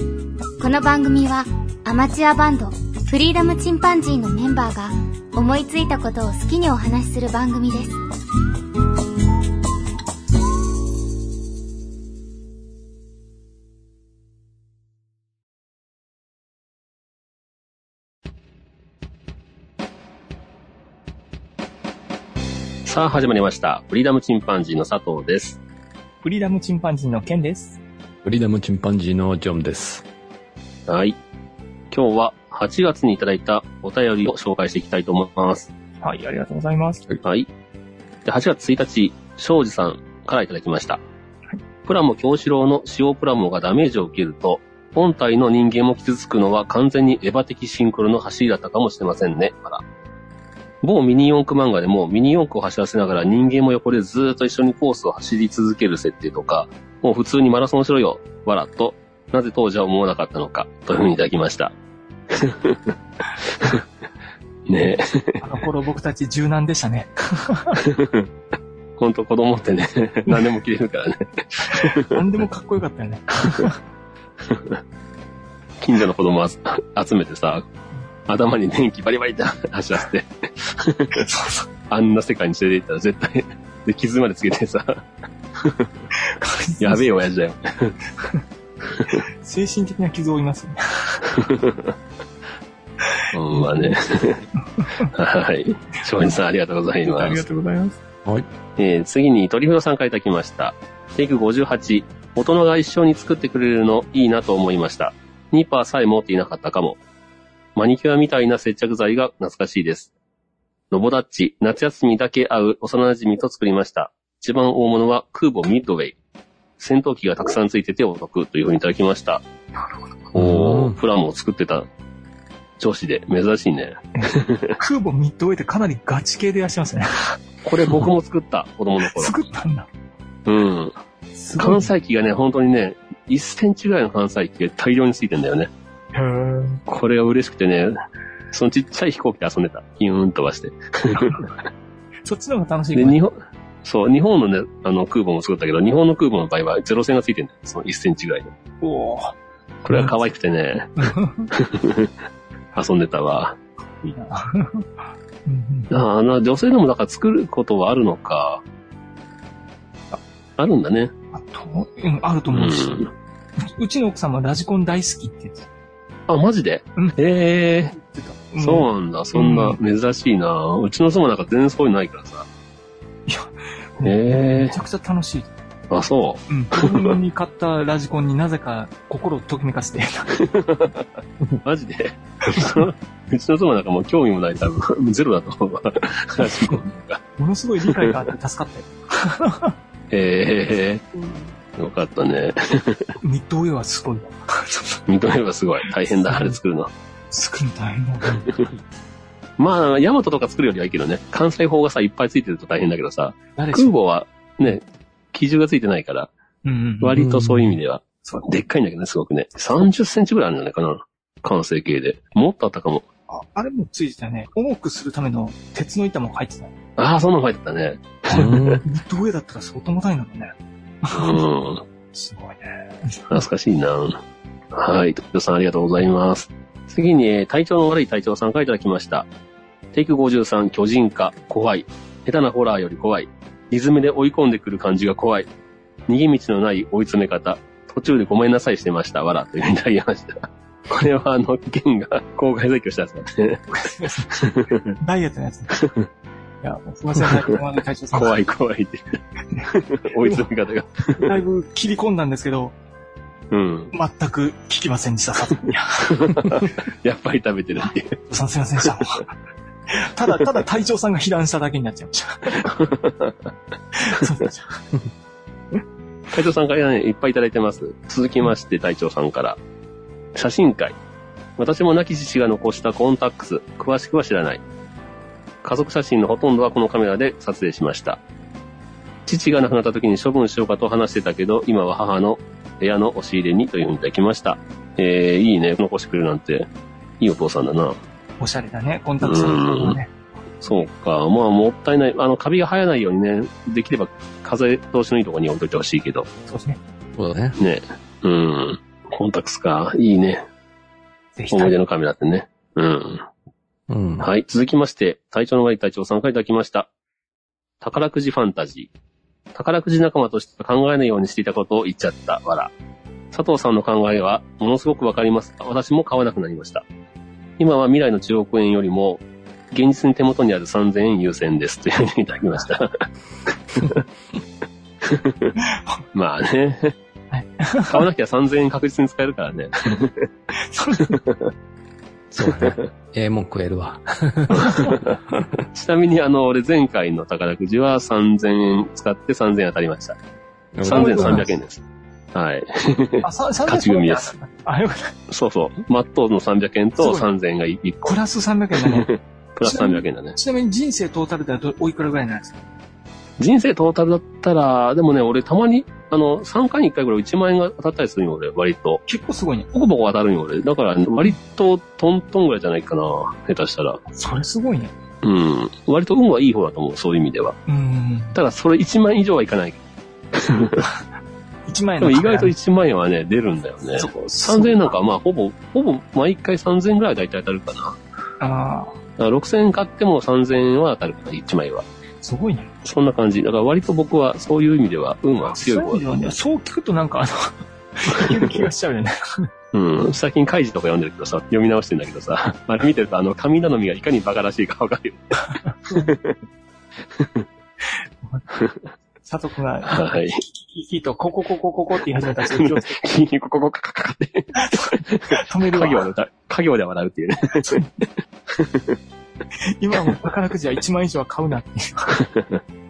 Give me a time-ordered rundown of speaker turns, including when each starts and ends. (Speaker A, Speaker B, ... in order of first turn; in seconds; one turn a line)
Speaker A: 0.6-7.9
Speaker B: 22.9-25.6
Speaker C: 26.2-27.8
Speaker D: 28.2-30.0
Speaker B: 30.9-31.2
Speaker B: 31.9-35.7
Speaker C: 36.0-37.1
Speaker B: 38.3-41.0
Speaker B: 41.9-49.8
Speaker B: 50.8-61.7
Speaker B: 62.3-62.9
Speaker B: 64.7-65.4
Speaker C: 65.4-67.8
Speaker B: 67.8-68.3
Speaker B: 69.0-72.2
Speaker C: 71.7-73.8
Speaker B: 74.5-74.8
Speaker B: 75.8-77.7
Speaker B: 78.3-81.3
Speaker C: 81.2-81.6
Speaker B: 81.9-85.0
Speaker B: 85.6-85.9
Speaker C: 86.2-87.1
Speaker B: 86.8-88.0
Speaker C: 89.1-91.2
Speaker B: 91.3-92.0
Speaker C: 93.1-94.0
Speaker B: 93.3-94.5
Speaker C: 94.6-95.1
Speaker B: 95.0-97.4
Speaker C: 97.0-98.0
Speaker B: 98.8-107.0
Speaker B: 107.8-110.1
Speaker B: 110.9-116.2
Speaker B: 116.8-119.4
Speaker B: 120.3-121.9
Speaker D: 120.4-121.0
Speaker B: 122.8-124.8
Speaker C: 124.2-127.4
Speaker B: 127.7-129.3
Speaker C: 129.0-129.9
Speaker B: 130.5-131.0
Speaker C: 131.3-131.9
Speaker B: 131.6-135.7
Speaker C: 136.1-136.8
Speaker B: 136.9-138.0
Speaker B: 138.5-141.5
Speaker C: 141.1-141.4
Speaker C: 142.3-143.2
Speaker B: 142.9-148.5
Speaker C: 148.8-149.4
Speaker B: 149.8-150.9
Speaker C: 151.0-151.5
Speaker B: 151.5-152.1
Speaker B: 152.8-153.6
Speaker C: 154.1-154.9
Speaker C: 155.5-155.9
Speaker B: 155.9-158.6
Speaker B: 160.6-161.1
Speaker C: 161.3-163.0
Speaker B: 162.5-163.1
Speaker C: 163.6-165.7
Speaker B: 166.3-168.0
Speaker C: 168.0-169.8
Speaker B: 168.6-172.5
Speaker C: 173.3-175.5
Speaker B: 174.0-174.8
Speaker B: 175.9-177.1
Speaker C: 176.5-180.4
Speaker B: 180.4-181.0
Speaker B: 181.7-187.2
Speaker C: 182.5-182.8
Speaker C: 186.4-186.7
Speaker C: 187.4-189.8
Speaker B: 187.9-188.2
Speaker B: 190.1-191.1
Speaker B: 191.8-193.2
Speaker C: 193.2-195.0
Speaker B: 195.1-196.9
Speaker C: 196.1-196.6
Speaker C: 197.3-198.5
Speaker B: 199.6-206.3
Speaker C: 203.6-203.9
Speaker C: 206.7-207.7
Speaker B: 207.0-213.1
Speaker C: 213.3-216.7
Speaker B: 217.0-218.8
Speaker D: 218.3-218.8
Speaker C: 218.3-221.4
Speaker B: 221.1-221.8
Speaker C: 222.1-223.4
Speaker B: 223.3-224.2
Speaker B: 224.7-229.3
Speaker B: 229.9-235.5
Speaker B: 236.1-243.6
Speaker C: 243.7-244.4
Speaker B: 244.3-244.9
Speaker C: 245.0-245.8
Speaker B: 245.8-246.1
Speaker C: 246.6-248.4
Speaker B: 248.1-249.2
Speaker C: 249.5-250.5
Speaker B: 249.7-251.3
Speaker C: 251.2-252.8
Speaker B: 253.5-253.9
Speaker C: 253.9-256.7
Speaker B: 256.2-258.2
Speaker C: 258.3-259.3
Speaker C: 259.9-262.9
Speaker B: 262.7-263.3
Speaker C: 263.9-264.8
Speaker B: 266.3-269.6
Speaker B: 270.4-271.0
Speaker B: 271.6-274.6
Speaker B: 275.6-278.2
Speaker B: 279.3-286.7
Speaker B: 287.2-288.0
Speaker C: 288.4-290.1
Speaker B: 289.2-290.0
Speaker B: 290.6-296.3
Speaker C: 296.5-296.8
Speaker D: 297.1-297.6
Speaker B: 297.6-300.4
Speaker C: 301.4-301.8
Speaker B: 301.5-303.2
Speaker D: 303.9-304.3
Speaker B: 304.2-306.9
Speaker B: 307.8-308.9
Speaker B: 309.6-312.7
Speaker B: 313.3-316.8
Speaker B: 317.6-323.0
Speaker B: 323.7-324.0
Speaker B: 325.0-325.5
Speaker C: 325.6-326.0
Speaker B: 326.1-326.9
Speaker C: 327.3-328.1
Speaker B: 327.9-330.3
Speaker C: 330.6-331.2
Speaker D: 332.3-334.9
Speaker B: 332.4-332.8
Speaker C: 334.6-334.9
Speaker B: 334.7-335.1
Speaker B: 335.7-340.2
Speaker D: 340.8-341.5
Speaker B: 340.8-341.8
Speaker C: 340.9-341.5
Speaker B: 342.3-344.3
Speaker C: 343.2-345.1
Speaker B: 345.3-348.2
Speaker C: 347.0-347.3
Speaker C: 348.1-349.1
Speaker B: 348.8-350.4
Speaker C: 349.6-352.6
Speaker B: 353.4-359.0
Speaker C: 359.1-359.7
Speaker B: 359.7-364.0
Speaker C: 364.1-364.9
Speaker B: 365.2-367.6
Speaker C: 367.7-368.4
Speaker B: 368.4-369.8
Speaker B: 370.4-370.8
Speaker C: 371.7-372.5
Speaker B: 372.0-378.0
Speaker C: 373.9-375.0
Speaker C: 378.4-379.0
Speaker B: 379.2-381.9
Speaker C: 382.2-382.7
Speaker B: 382.9-386.0
Speaker C: 385.5-389.5
Speaker B: 388.1-388.6
Speaker B: 389.7-396.4
Speaker C: 395.7-396.1
Speaker B: 397.2-397.4
Speaker C: 399.2-403.0
Speaker B: 399.9-400.4
Speaker B: 402.5-407.8
Speaker C: 404.6-406.0
Speaker C: 407.6-407.9
Speaker B: 408.5-409.0
Speaker C: 409.6-412.2
Speaker B: 412.2-412.6